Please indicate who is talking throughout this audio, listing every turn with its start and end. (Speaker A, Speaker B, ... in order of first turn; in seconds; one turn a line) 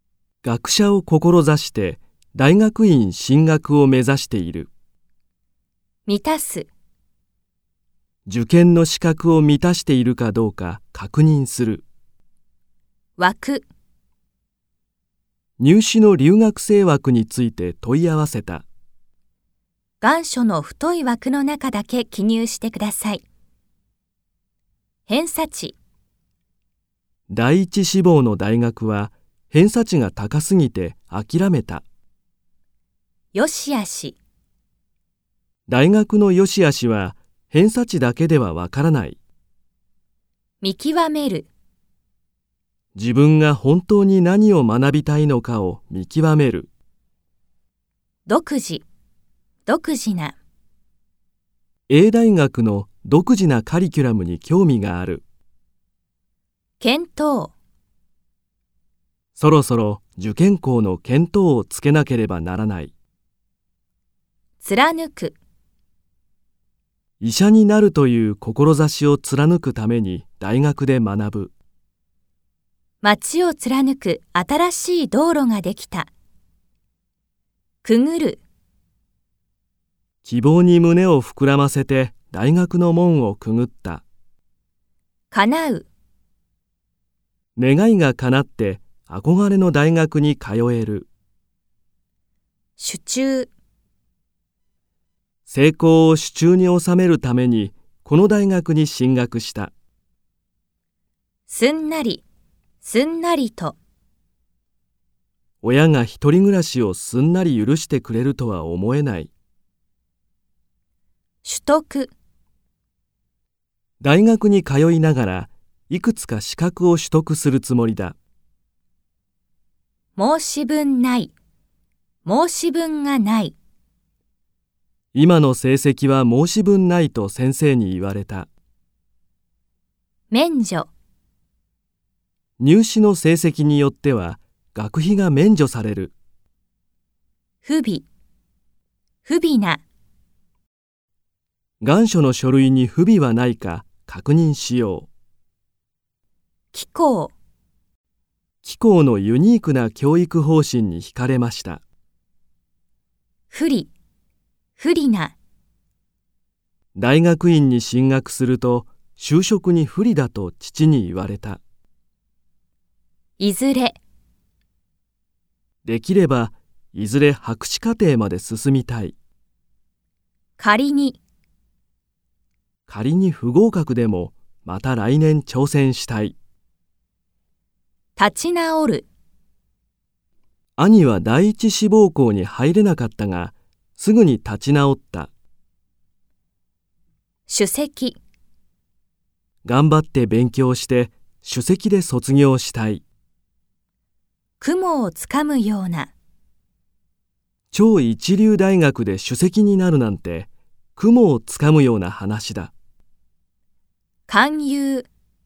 Speaker A: 0.4-4.7
Speaker B: 6.1-6.7
Speaker A: 8.3-11.8
Speaker B: 13.2-13.7
Speaker A: 15.6-18.6
Speaker B: 20.0-23.2
Speaker B: 25.1-25.8
Speaker A: 27.3-31.8
Speaker B: 33.3-34.2
Speaker A: 35.7-39.2
Speaker B: 40.6-41.5
Speaker A: 43.0-46.7
Speaker B: 48.3-48.8
Speaker B: 49.7-50.4
Speaker A: 51.9-55.2
Speaker B: 56.8-57.5
Speaker A: 59.4-62.9
Speaker B: 64.6-65.4
Speaker A: 67.2-71.5
Speaker B: 73.0-76.1
Speaker B: 77.8-78.4
Speaker A: 80.2-84.0
Speaker B: 85.3-85.9
Speaker A: 87.5-91.1
Speaker B: 92.8-93.5
Speaker A: 95.5-99.7
Speaker B: 101.5-102.2
Speaker B: 102.8-103.8
Speaker A: 105.6-109.3
Speaker B: 111.4-112.1
Speaker A: 114.0-118.2
Speaker B: 120.2-121.3
Speaker B: 122.2-123.5
Speaker A: 125.1-128.5
Speaker B: 130.3-130.9
Speaker A: 132.6-136.1
Speaker B: 137.6-138.0
Speaker B: 139.2-139.8
Speaker A: 141.8-145.1
Speaker B: 146.7-147.3
Speaker A: 148.6-151.8
Speaker B: 153.5-153.9
Speaker B: 154.8-155.3
Speaker A: 156.9-161.6
Speaker B: 163.4-164.0
Speaker A: 165.8-169.2
Speaker B: 170.6-171.2
Speaker A: 172.9-176.3
Speaker B: 178.2-179.1
Speaker A: 180.8-185.3
Speaker B: 187.5-188.2
Speaker A: 189.6-193.0
Speaker B: 194.6-196.1
Speaker A: 197.7-202.7
Speaker B: 204.3-205.1